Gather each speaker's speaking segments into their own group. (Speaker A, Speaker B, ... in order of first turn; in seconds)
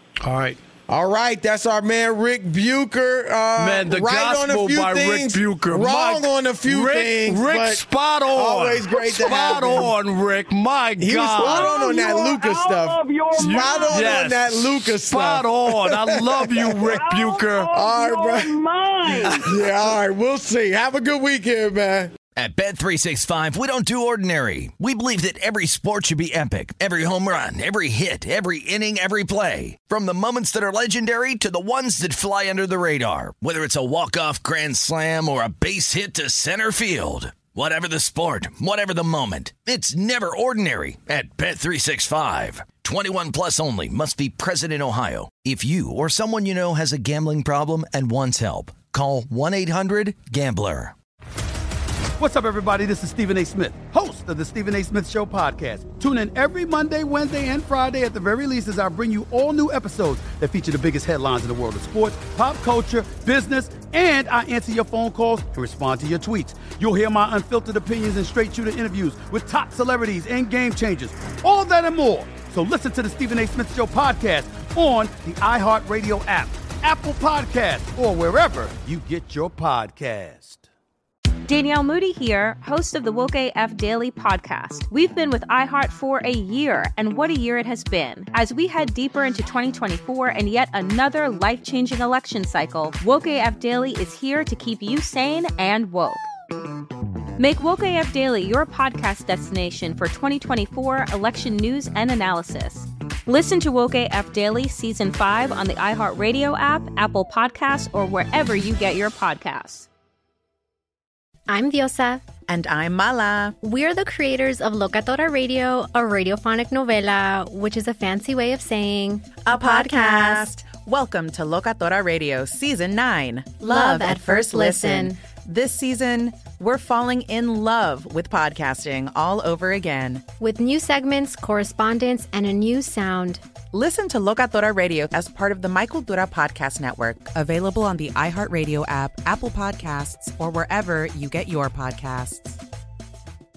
Speaker A: 0.2-0.6, 3.6-11.7, 13.4-17.7
Speaker B: 0.9-9.9, 11.0-16.8, 17.7-18.5, 19.1-22.1
Speaker C: 9.2-9.9, 11.4-14.2, 16.8-19.5
Speaker D: 22.4-50.9
Speaker E: 52.2-80.7
Speaker F: 81.5-96.3, 97.4-109.9
Speaker G: 111.5-112.2, 113.6-120.7, 123.6-125.2, 130.4-133.4
Speaker H: 112.5-113.6, 119.4-130.2, 133.7-142.6